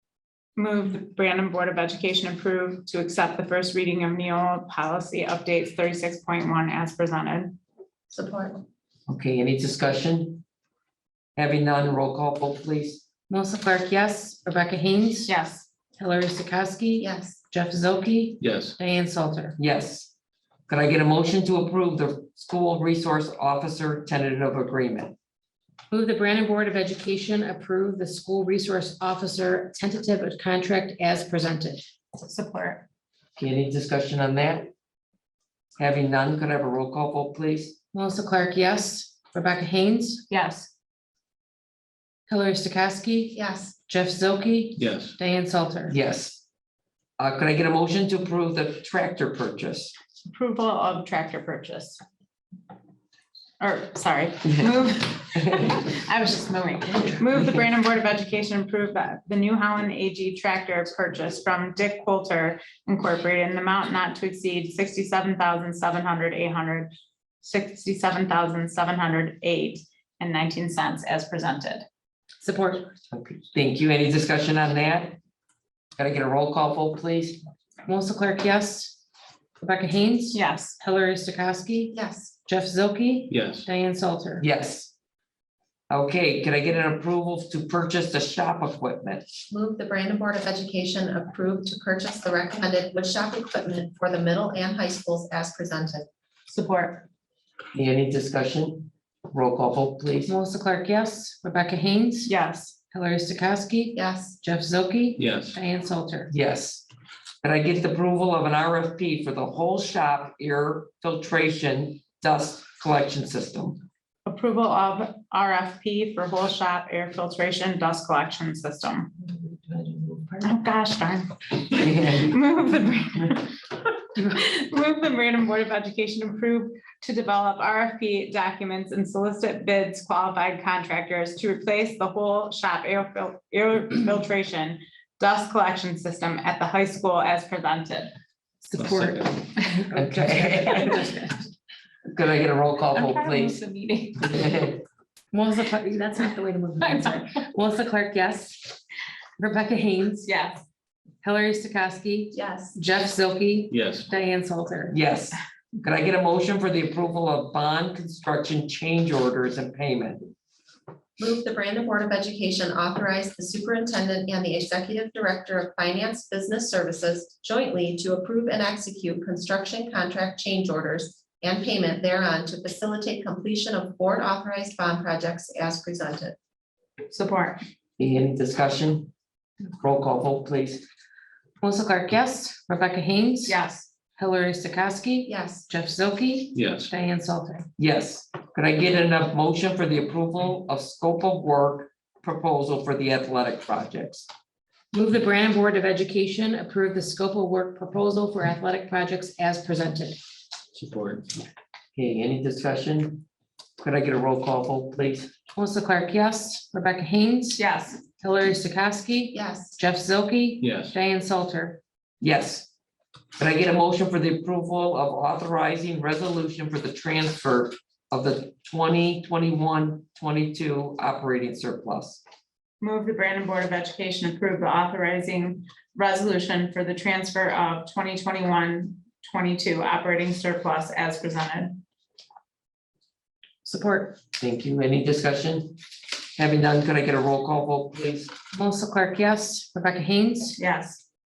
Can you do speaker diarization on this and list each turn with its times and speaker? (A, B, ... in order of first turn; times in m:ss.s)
0:00.6-0:07.6 A
0:08.1-0:08.6 B
0:09.1-0:10.4 C
0:11.4-0:13.0 C
0:13.3-0:15.3 D
0:15.3-0:15.7 A
0:16.0-0:19.6 D
0:17.0-0:17.4 B
0:18.4-0:18.8 E
0:19.6-0:20.1 C
0:20.7-0:25.1 C
0:25.9-0:31.8 D
0:32.2-0:32.8 A
0:33.4-0:34.7 C
0:35.8-0:37.8 C
0:37.9-0:40.2 D
0:40.3-0:40.7 A
0:42.3-0:46.0 D
0:43.4-0:43.7 B
0:44.8-0:45.2 E
0:45.9-0:46.4 C
0:47.2-0:49.9 C
0:50.3-0:52.0 A
0:53.6-1:11.9 A
1:12.4-1:12.9 D
1:13.1-1:15.2 C
1:16.0-1:17.4 C
1:17.9-1:19.0 D
1:19.6-1:24.4 D
1:20.3-1:20.8 A
1:21.9-1:22.4 B
1:23.3-1:23.7 E
1:24.4-1:24.9 C
1:25.9-1:29.3 C
1:29.5-1:36.0 B
1:36.5-1:37.1 A
1:37.7-1:40.3 C
1:40.3-1:42.3 D
1:42.3-1:42.8 A
1:42.9-1:46.3 D
1:44.0-1:44.4 B
1:45.2-1:45.6 E
1:46.3-1:46.9 C
1:47.4-1:53.8 C
1:54.3-1:59.1 A
1:59.7-2:00.4 D
1:59.7-2:00.2 C
2:00.4-2:03.5 A
2:01.7-2:02.4 C
2:04.2-2:18.1 A
2:18.6-2:21.5 D
2:18.8-2:19.4 E
2:19.9-2:21.1 C
2:22.1-2:23.6 C
2:22.9-2:24.3 A
2:24.2-2:24.8 C
2:25.3-2:28.8 D
2:26.8-2:27.3 A
2:29.4-2:30.3 D
2:30.2-2:30.6 A
2:31.2-2:35.0 D
2:32.3-2:32.8 B
2:33.7-2:34.1 E
2:34.9-2:40.3 C
2:41.2-2:56.4 B
2:57.1-2:57.6 A
2:58.0-2:59.1 C
2:59.8-3:00.9 C
3:01.6-3:03.6 D
3:03.5-3:03.9 A
3:04.2-3:07.7 D
3:05.3-3:05.7 B
3:06.5-3:06.9 E
3:07.8-3:14.3 C
3:14.9-3:20.2 D
3:20.7-3:21.4 E
3:22.0-3:23.2 C
3:23.8-3:25.3 C
3:25.6-3:27.6 D
3:27.6-3:28.0 A
3:28.2-3:31.8 D
3:29.3-3:29.8 B
3:30.6-3:31.0 E
3:32.2-3:32.7 C
3:33.4-3:42.2 C
3:42.8-3:51.8 A
3:53.6-3:54.2 D
3:54.4-3:55.8 C
3:56.4-3:58.3 C
3:58.5-4:00.6 D
4:00.6-4:01.0 A